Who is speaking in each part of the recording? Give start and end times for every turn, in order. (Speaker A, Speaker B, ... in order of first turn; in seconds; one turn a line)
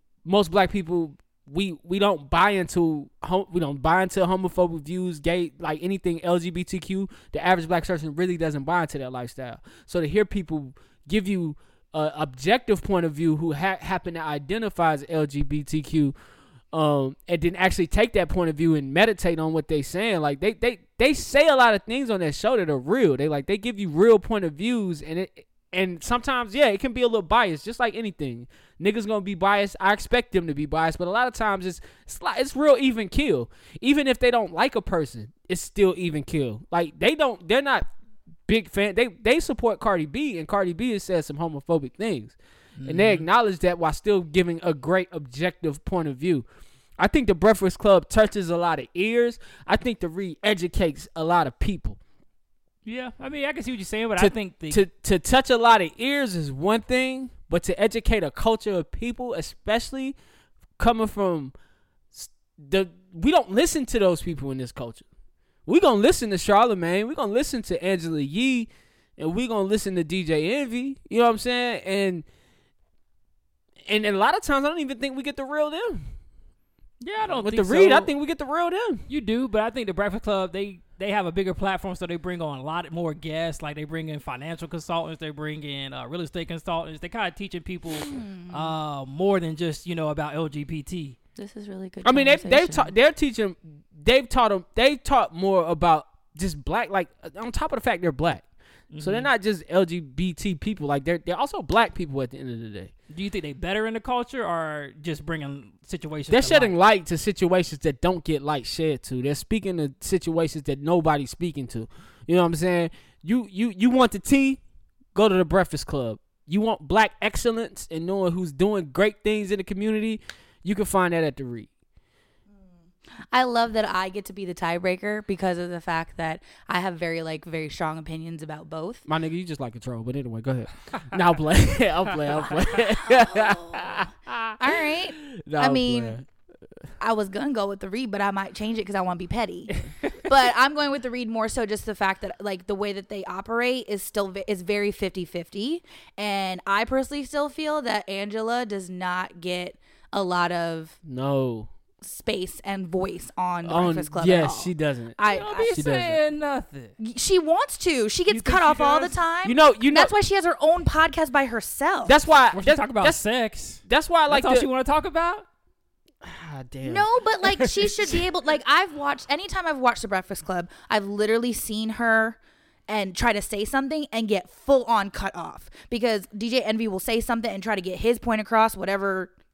Speaker A: 0.2-16.1
Speaker A: 16.7-37.9
Speaker A: 38.5-46.5
Speaker B: 42.8-43.3
Speaker A: 47.0-52.0
Speaker B: 52.9-54.8
Speaker A: 54.2-60.2
Speaker A: 60.8-61.5
Speaker A: 62.1-65.0
Speaker A: 65.7-72.2
Speaker A: 73.8-76.1
Speaker B: 77.0-78.1
Speaker A: 77.3-79.0
Speaker B: 79.1-91.2
Speaker C: 88.0-88.8
Speaker C: 91.4-92.9
Speaker A: 92.0-98.5
Speaker B: 98.9-99.3
Speaker A: 99.0-102.9
Speaker B: 103.1-106.7
Speaker A: 106.3-114.6
Speaker A: 115.1-121.7
Speaker C: 123.3-129.0
Speaker A: 129.1-134.6
Speaker C: 132.9-136.2
Speaker A: 135.2-136.3
Speaker C: 137.0-150.9
Speaker B: 139.8-140.2
Speaker A: 151.0-151.7
Speaker C: 152.0-155.8
Speaker A: 153.7-156.2
Speaker B: 155.2-157.0
Speaker C: 157.0-162.2
Speaker B: 158.3-159.2
Speaker A: 159.4-160.1
Speaker A: 162.1-163.2
Speaker B: 162.5-165.5
Speaker A: 163.9-164.7
Speaker A: 166.2-167.1
Speaker C: 166.8-179.3
Speaker A: 167.6-167.9